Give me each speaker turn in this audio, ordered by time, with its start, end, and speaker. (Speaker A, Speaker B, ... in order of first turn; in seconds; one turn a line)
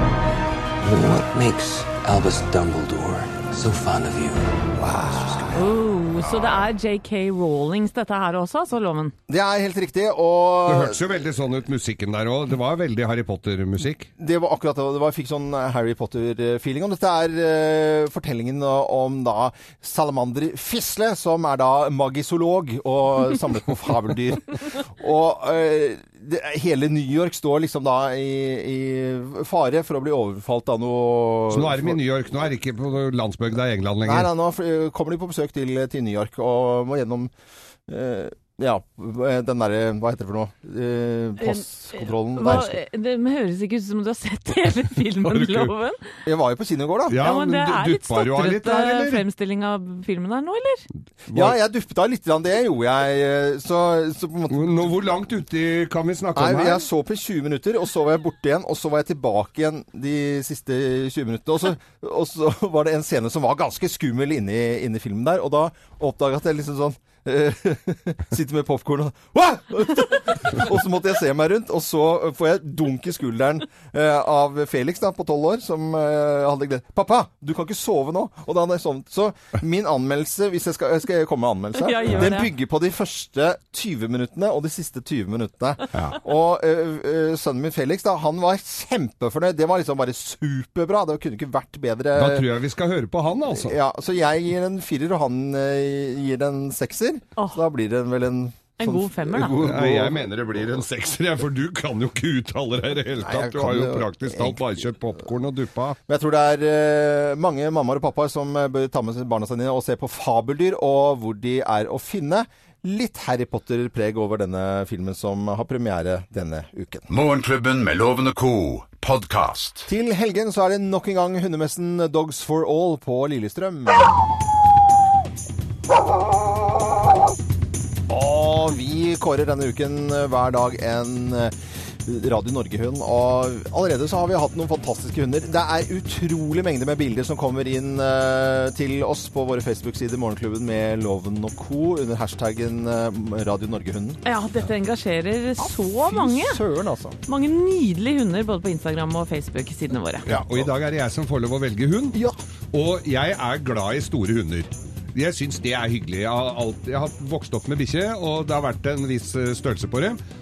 Speaker A: 0.8-5.6
Speaker B: 4.8-5.5
Speaker C: 5.5-9.1
Speaker B: 9.3-11.0
Speaker D: 10.7-14.1
Speaker B: 14.2-32.0
Speaker D: 31.5-34.3
Speaker B: 34.0-37.3
Speaker B: 37.9-42.8
Speaker C: 41.4-46.0
Speaker D: 45.2-45.7
Speaker B: 46.2-47.2
Speaker D: 47.1-49.2
Speaker C: 47.2-50.9
Speaker D: 51.3-51.5
Speaker B: 51.3-55.0
Speaker D: 54.5-56.8
Speaker B: 56.4-92.5
Speaker C: 81.8-82.5
Speaker D: 92.2-93.8
Speaker B: 93.5-100.3
Speaker C: 98.8-99.6
Speaker D: 99.6-106.0
Speaker B: 103.2-104.8
Speaker B: 106.1-117.1
Speaker E: 117.1-119.9
Speaker B: 119.9-124.1
Speaker B: 128.1-144.2
Speaker C: 144.2-146.6
Speaker B: 145.6-147.2
Speaker C: 147.3-150.2
Speaker D: 150.2-152.2
Speaker B: 150.2-150.7
Speaker D: 152.7-160.2